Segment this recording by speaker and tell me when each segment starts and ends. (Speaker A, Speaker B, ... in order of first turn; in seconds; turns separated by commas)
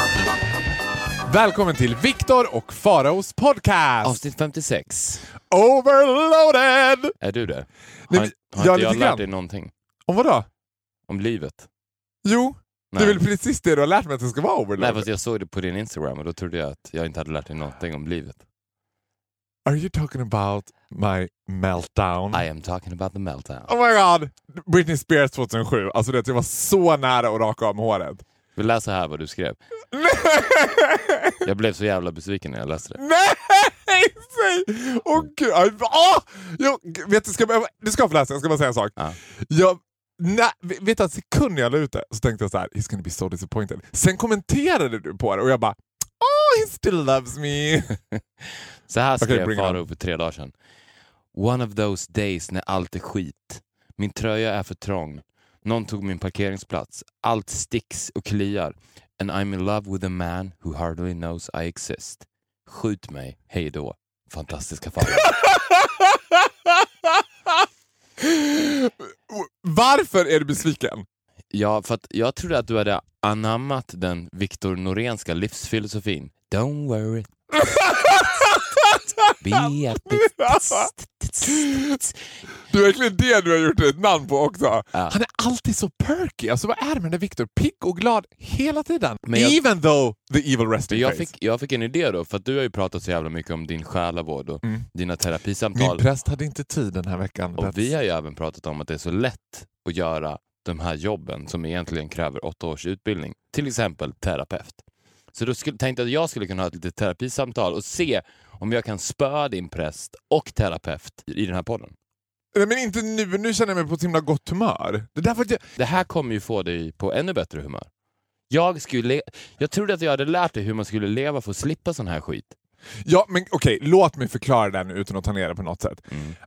Speaker A: 1.3-4.2, Speaker B: 4.0-5.3, Speaker A: 5.5-7.1, Speaker B: 7.2-9.7, Speaker A: 8.1-9.2, Speaker A: 10.1-10.5, Speaker B: 11.1-11.7, Speaker A: 12.2-15.1, Speaker B: 12.9-13.2, Speaker B: 14.8-18.4, Speaker A: 19.6-22.4, Speaker B: 22.3-23.7, Speaker A: 23.7-28.2, Speaker B: 28.5-29.6, Speaker A: 29.9-31.4, Speaker B: 31.4-33.0, Speaker A: 33.0-48.0, Speaker B: 48.4-50.5, Speaker A: 49.2-49.8, Speaker B: 51.3-65.3, Speaker A: 65.1-67.6, Speaker A: 68.2-71.0, Speaker B: 71.5-77.4, Speaker A: 77.5-80.9, Speaker B: 79.4-82.2, Speaker A: 81.5-82.0, Speaker A: 82.7-91.3, Speaker B: 89.2-89.6, Speaker B: 90.9-96.0, Speaker A: 95.7-97.9, Speaker B: 97.6-104.8, Speaker B: 105.3-111.9, Speaker A: 112.5-115.6, Speaker B: 115.8-117.9, Speaker B: 118.5-122.5, Speaker A: 123.0-126.1, Speaker B: 126.1-126.3